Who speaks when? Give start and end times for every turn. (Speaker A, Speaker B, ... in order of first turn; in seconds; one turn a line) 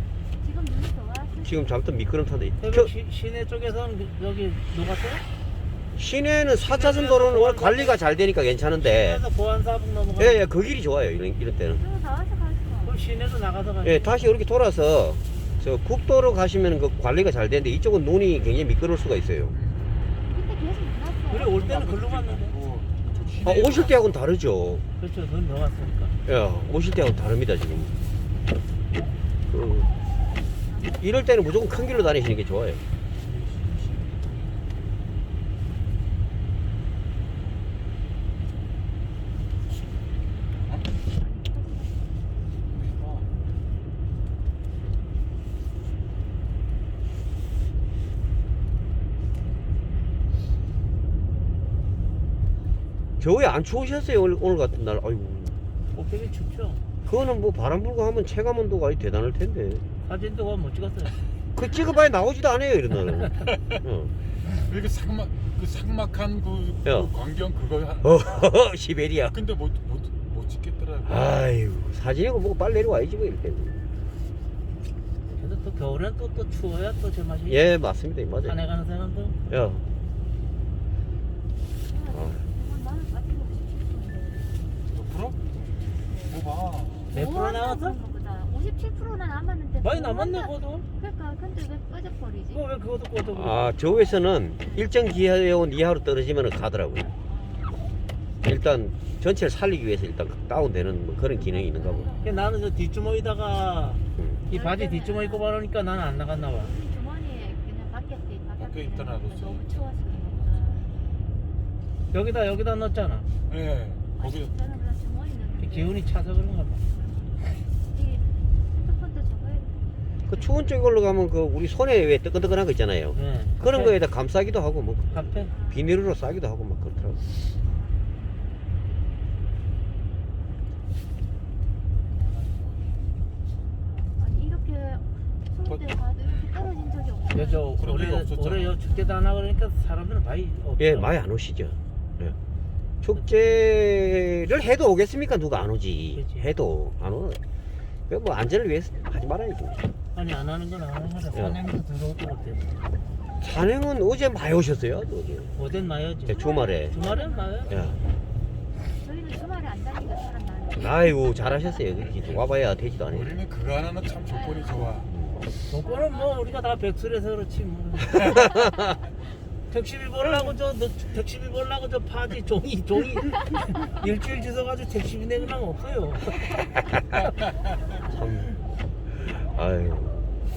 Speaker A: 0.4-1.8
Speaker B: 1.4-2.9
Speaker C: 2.6-5.2
Speaker B: 6.0-9.2
Speaker C: 6.6-8.0
Speaker C: 8.8-10.4
Speaker B: 10.2-11.8
Speaker A: 11.8-12.9
Speaker C: 12.8-14.3
Speaker B: 13.8-19.5
Speaker D: 19.5-20.1
Speaker A: 20.2-21.5
Speaker C: 21.3-22.6
Speaker D: 21.4-24.3
Speaker A: 23.1-23.4
Speaker B: 23.4-24.8
Speaker C: 25.0-26.2
Speaker B: 26.2-27.9
Speaker B: 29.5-29.9
Speaker A: 30.6-31.1
Speaker B: 31.0-32.8
Speaker D: 33.2-34.6
Speaker D: 40.5-40.9
Speaker A: 41.1-42.3
Speaker D: 42.6-43.3
Speaker B: 53.2-55.6
Speaker C: 55.9-56.8
Speaker B: 57.0-59.8
Speaker C: 60.0-61.2
Speaker B: 61.5-64.1
Speaker D: 63.4-63.8
Speaker D: 64.5-68.5
Speaker B: 66.8-67.1
Speaker B: 68.0-69.3
Speaker D: 69.3-71.4
Speaker B: 71.0-73.8
Speaker C: 75.3-77.6
Speaker B: 77.5-78.6
Speaker C: 78.4-79.4
Speaker B: 79.5-79.8
Speaker A: 81.8-84.6
Speaker B: 82.1-82.4
Speaker D: 84.9-85.5
Speaker A: 86.1-86.4
Speaker D: 86.2-87.1
Speaker A: 87.1-92.6
Speaker C: 87.1-88.0
Speaker C: 89.8-90.8
Speaker C: 92.5-93.7
Speaker B: 93.3-97.1
Speaker A: 93.8-94.9
Speaker A: 97.2-98.3
Speaker B: 98.4-102.1
Speaker A: 101.3-102.5
Speaker C: 102.2-106.7
Speaker B: 104.2-104.4
Speaker A: 104.5-105.5
Speaker A: 106.4-111.0
Speaker D: 108.6-109.8
Speaker C: 112.1-113.3
Speaker D: 113.5-114.5
Speaker A: 114.2-116.2
Speaker C: 115.6-116.9
Speaker A: 116.9-120.6
Speaker B: 120.3-127.2
Speaker C: 123.1-124.0
Speaker C: 125.1-125.5
Speaker A: 125.4-126.0
Speaker A: 127.6-128.6
Speaker D: 132.0-133.0
Speaker A: 134.2-137.7
Speaker D: 135.6-136.7
Speaker C: 137.3-141.1
Speaker D: 137.7-138.8
Speaker A: 138.9-139.3
Speaker B: 140.8-142.3
Speaker B: 143.0-147.4
Speaker C: 146.2-146.5
Speaker B: 148.1-149.8
Speaker C: 150.1-152.7
Speaker B: 153.4-155.5
Speaker C: 155.6-157.8
Speaker B: 156.2-156.9
Speaker A: 156.3-157.9
Speaker B: 157.7-158.0
Speaker A: 158.9-161.8
Speaker B: 160.8-163.4
Speaker D: 162.1-162.4
Speaker D: 163.0-165.1
Speaker A: 164.2-164.8
Speaker B: 165.1-165.4
Speaker C: 165.7-168.4
Speaker A: 165.7-166.6
Speaker B: 168.2-168.9
Speaker C: 169.7-176.4
Speaker B: 176.8-177.2
Speaker B: 178.1-178.5
Speaker B: 179.1-180.2